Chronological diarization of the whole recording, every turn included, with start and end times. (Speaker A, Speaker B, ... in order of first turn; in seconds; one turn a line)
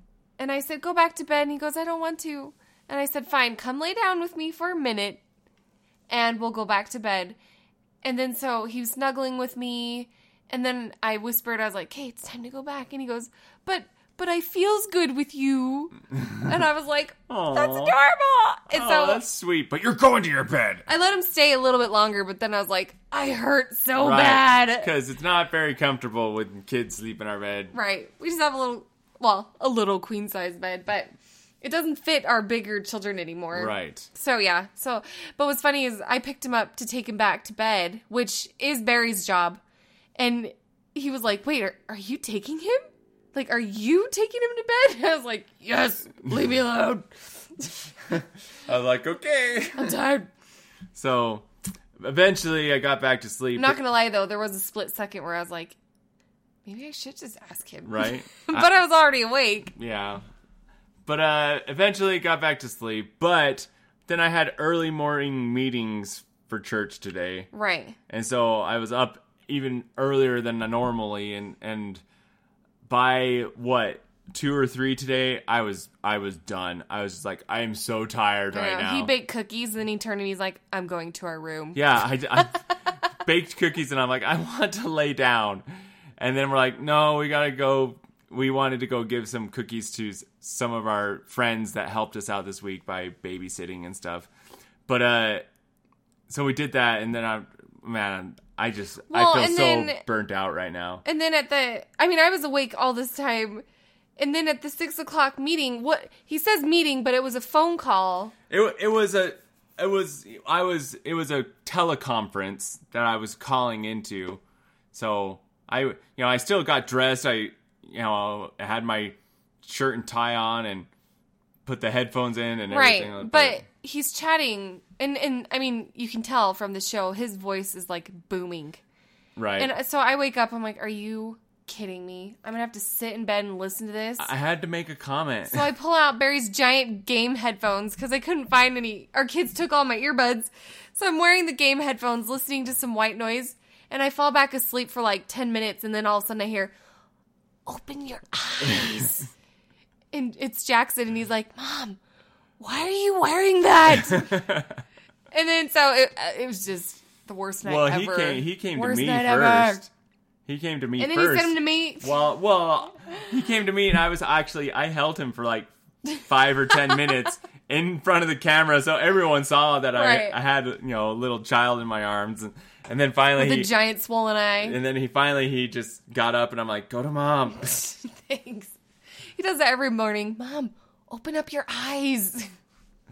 Speaker A: 0.4-5.2
Speaker A: 6.1-7.4
Speaker A: 8.0-19.2
Speaker B: 16.2-16.6
Speaker B: 17.3-18.0
Speaker B: 18.7-20.9
Speaker A: 20.9-24.9
Speaker B: 24.0-27.8
Speaker A: 27.7-31.1
Speaker A: 31.6-39.6
Speaker B: 33.5-34.1
Speaker A: 40.2-48.2
Speaker B: 48.7-50.0
Speaker A: 49.8-50.3
Speaker B: 50.9-53.8
Speaker A: 53.6-55.8
Speaker A: 56.7-59.7
Speaker B: 57.8-58.7
Speaker B: 59.8-60.2
Speaker B: 61.1-67.5
Speaker A: 67.5-68.0
Speaker B: 68.1-72.0
Speaker B: 72.9-79.1
Speaker A: 78.5-81.8
Speaker B: 81.7-82.6
Speaker A: 82.3-82.8
Speaker B: 83.2-85.7
Speaker B: 86.2-94.3
Speaker B: 94.9-95.5
Speaker B: 96.3-101.0
Speaker A: 99.1-100.0
Speaker A: 101.0-103.7
Speaker A: 104.2-108.3
Speaker B: 108.5-114.4
Speaker B: 114.9-120.9
Speaker B: 121.7-123.6
Speaker A: 122.7-128.8
Speaker B: 129.4-129.7
Speaker A: 129.6-134.3
Speaker B: 134.2-135.7
Speaker A: 135.5-146.7
Speaker A: 147.7-149.3
Speaker A: 150.1-152.0
Speaker A: 152.6-154.4
Speaker B: 153.9-154.8
Speaker A: 155.3-159.8
Speaker B: 157.6-159.9
Speaker B: 160.5-173.7
Speaker A: 161.0-162.1
Speaker A: 169.9-170.3
Speaker A: 173.4-174.8
Speaker B: 174.6-177.8
Speaker A: 177.6-178.8
Speaker A: 179.3-182.5